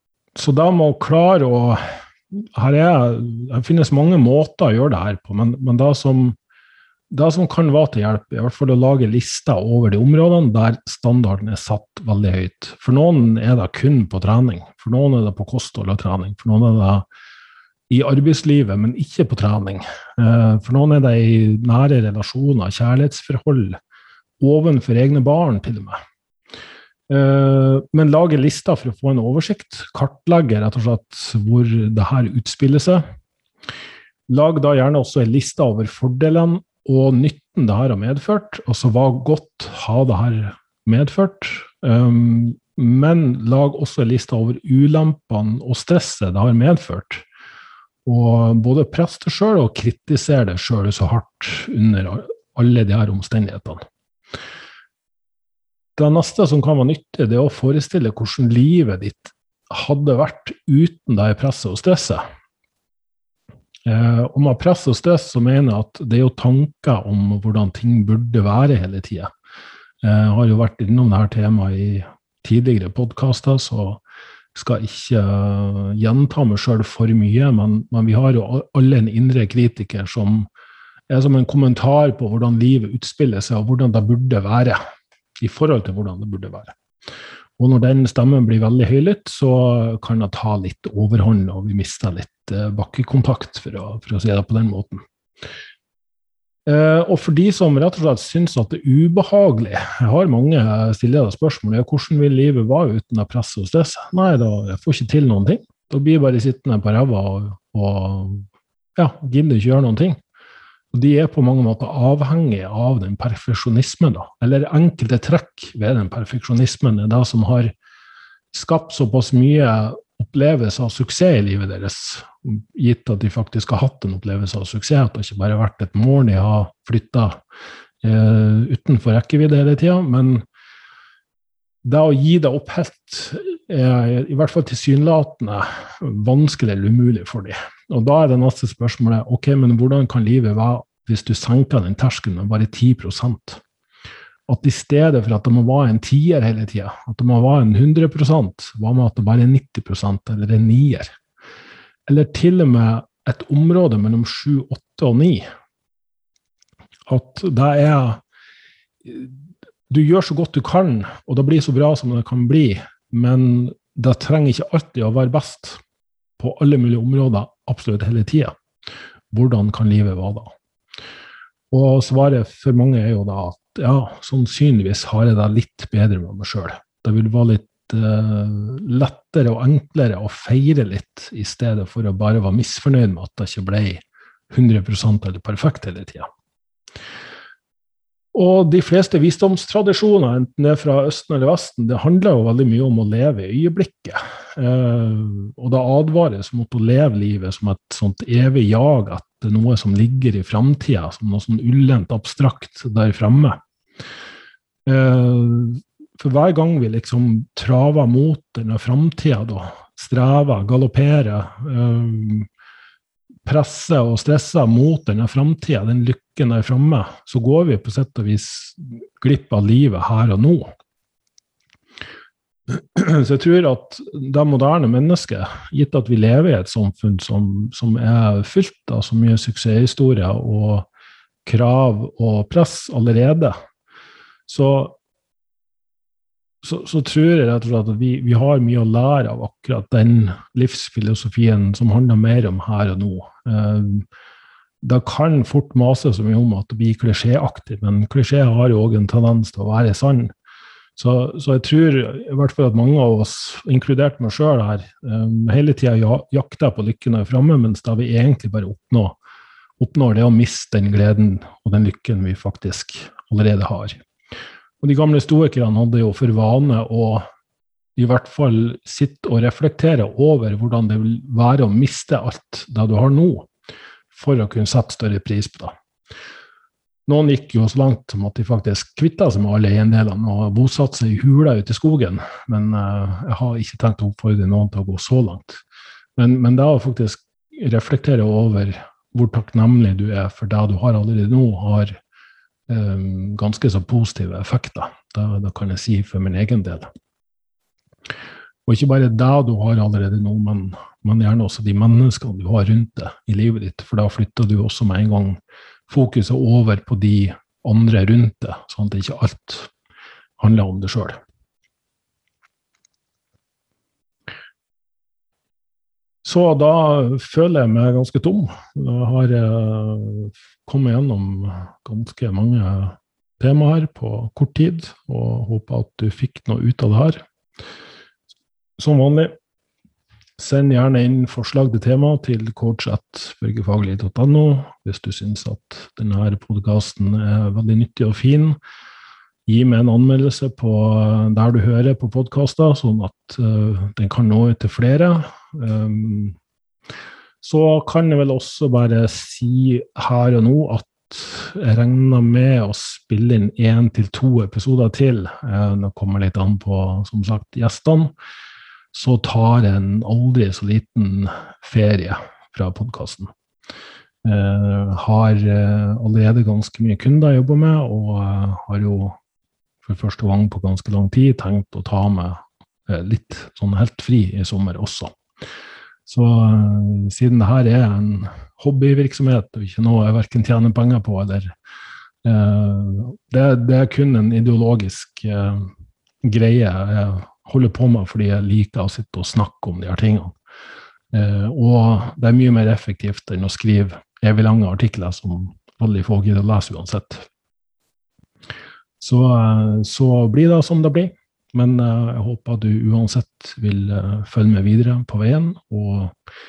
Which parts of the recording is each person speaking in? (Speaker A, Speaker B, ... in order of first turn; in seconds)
Speaker A: 0.3-6.4, 7.1-17.0, 17.9-23.8, 24.4-26.0, 27.1-33.0, 34.3-47.2, 48.0-53.8, 56.0-62.2, 63.9-69.3, 70.0-74.0, 74.5-80.5, 81.1-84.8, 85.4-86.8, 87.6-95.0, 96.7-110.2, 110.9-117.7, 118.5-127.4, 128.0-130.4, 131.8-143.6, 144.5-151.1, 152.1-155.5, 157.1-158.2, 159.0-165.8, 166.4-168.5, 169.3-170.5, 171.7-186.3, 188.3-203.6, 204.8-212.5, 213.4-220.7, 222.7-230.9, 231.4-233.5, 234.5-234.9, 236.6-244.1, 244.8-250.3, 250.9-259.2, 259.8-264.0, 264.8-267.2, 267.9-273.5, 274.1-275.7, 277.1-285.6, 286.2-291.9, 292.7-296.9, 298.6-309.7, 310.4-311.2, 316.2-327.2, 328.8-329.3, 330.4-338.6, 339.5-346.4, 347.4-358.1, 358.9-363.3, 364.2-369.2, 369.8-375.1, 376.1-381.5, 382.2-385.7, 386.2-390.3, 391.1-397.3, 399.0-406.1